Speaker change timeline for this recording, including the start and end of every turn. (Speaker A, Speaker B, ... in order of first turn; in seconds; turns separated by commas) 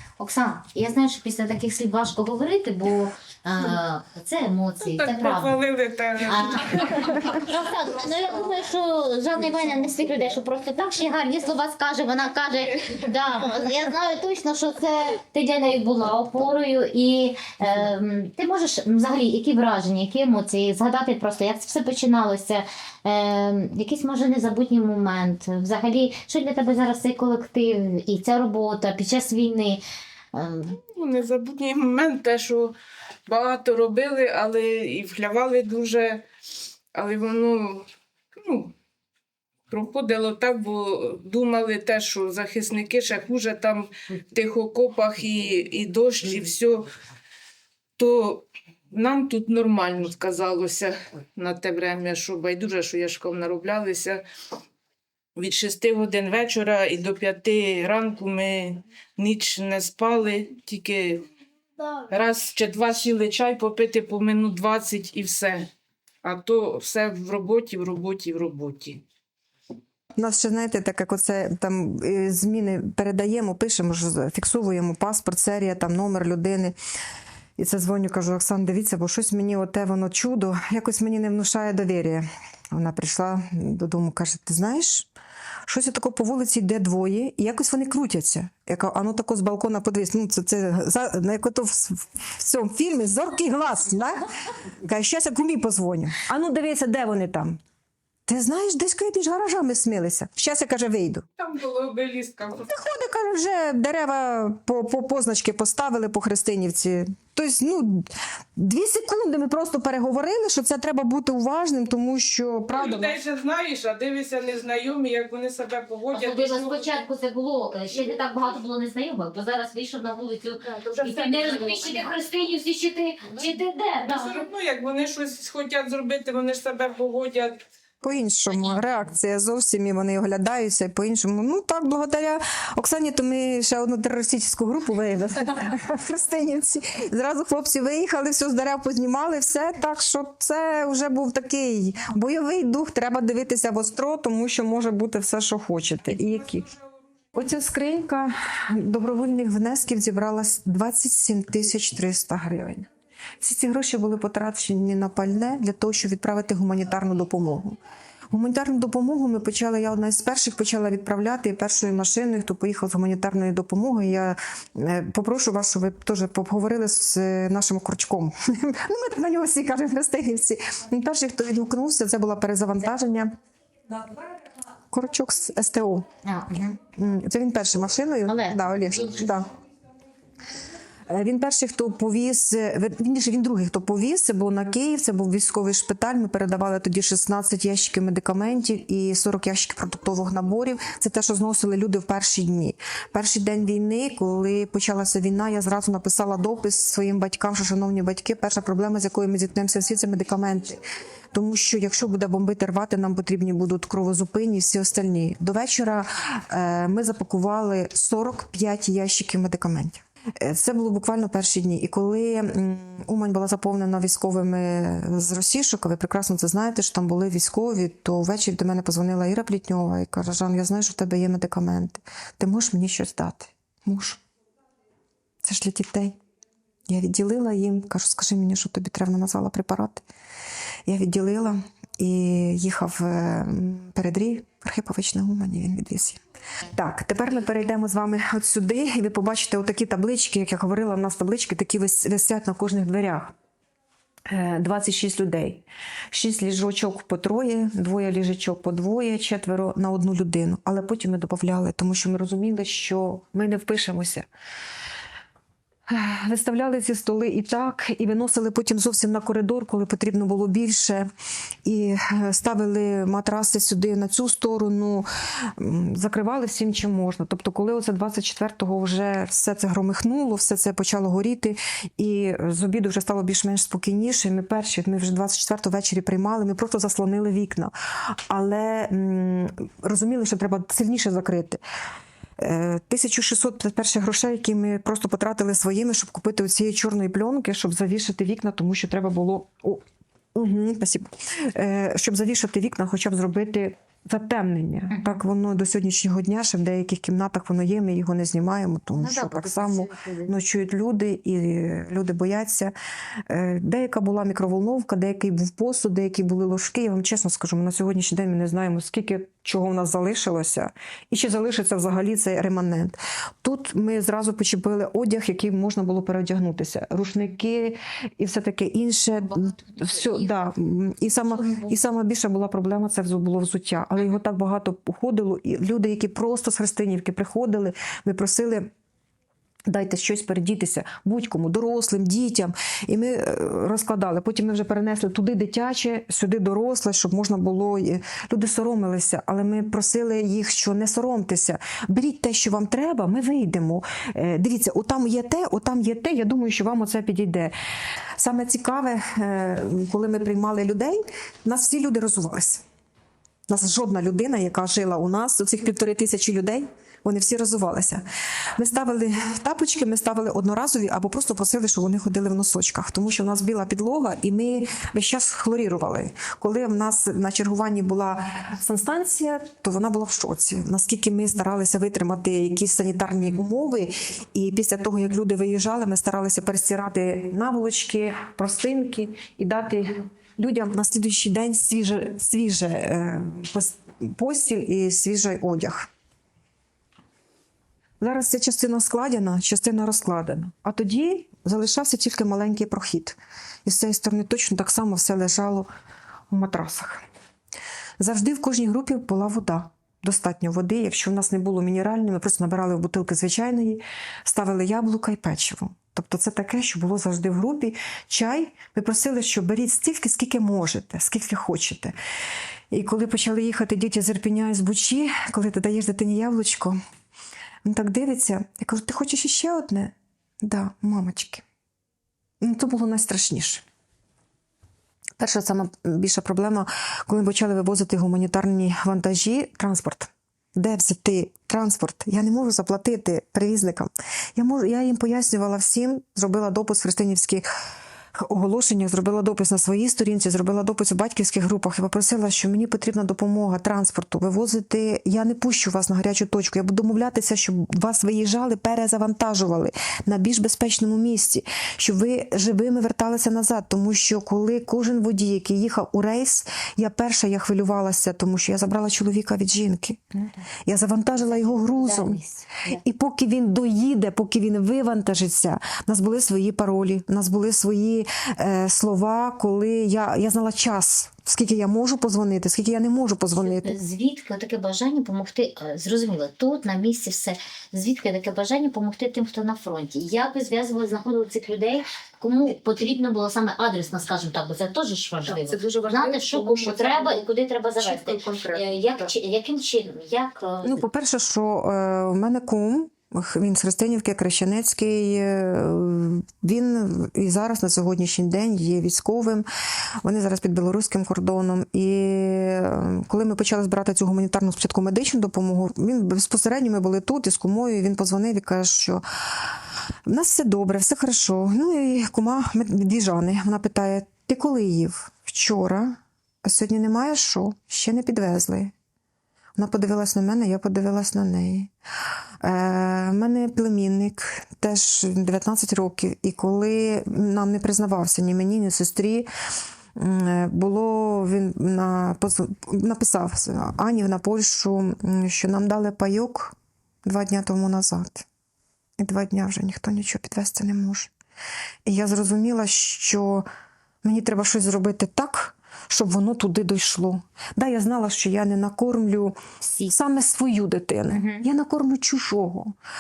Speaker A: 0.2-5.5, Speaker B: 4.8-7.3, Speaker A: 6.2-29.8, Speaker A: 30.3-30.8, Speaker B: 30.8-32.8, Speaker B: 33.3-36.2, Speaker B: 36.9-38.7, Speaker B: 39.7-46.9, Speaker B: 48.0-54.2, Speaker B: 55.4-61.2, Speaker B: 62.1-65.7, Speaker B: 66.2-69.0, Speaker C: 70.2-76.8, Speaker C: 77.6-85.1, Speaker C: 85.7-94.2, Speaker C: 94.8-97.6, Speaker C: 98.3-101.2, Speaker B: 101.4-102.8, Speaker C: 102.7-113.2, Speaker B: 112.7-117.0, Speaker A: 116.1-124.4, Speaker B: 120.6-122.1, Speaker B: 124.0-127.6, Speaker C: 128.0-146.7, Speaker C: 147.3-152.9, Speaker C: 153.4-157.8, Speaker C: 158.3-173.3, Speaker C: 174.9-176.1, Speaker A: 176.2-176.8, Speaker C: 176.9-179.5, Speaker A: 178.2-179.2, Speaker C: 181.1-200.8, Speaker C: 201.3-224.2, Speaker C: 225.4-226.2, Speaker C: 226.9-230.1, Speaker C: 230.9-236.2, Speaker C: 236.7-243.3, Speaker C: 244.3-254.2, Speaker C: 255.9-261.1, Speaker C: 261.6-281.6, Speaker C: 282.4-289.8, Speaker C: 290.4-302.7, Speaker A: 294.9-295.2, Speaker A: 299.0-300.3, Speaker C: 303.3-328.7, Speaker A: 321.4-321.7, Speaker C: 329.7-347.5, Speaker C: 348.2-352.6, Speaker C: 353.5-358.0, Speaker C: 358.6-385.9, Speaker C: 388.0-395.7, Speaker C: 396.3-397.0, Speaker C: 398.0-411.9, Speaker C: 412.7-416.8, Speaker C: 417.6-421.4, Speaker C: 422.4-423.6, Speaker C: 425.2-437.5, Speaker C: 438.1-462.2, Speaker A: 461.2-462.8, Speaker C: 462.7-473.8, Speaker A: 473.4-490.8, Speaker C: 485.2-489.1, Speaker C: 490.6-499.5, Speaker C: 500.0-509.0, Speaker C: 510.1-518.7, Speaker C: 519.6-521.7, Speaker C: 522.4-529.3, Speaker C: 530.0-536.5, Speaker C: 537.0-538.2, Speaker C: 539.0-541.1, Speaker C: 541.9-543.4, Speaker C: 544.0-552.7, Speaker A: 551.1-551.5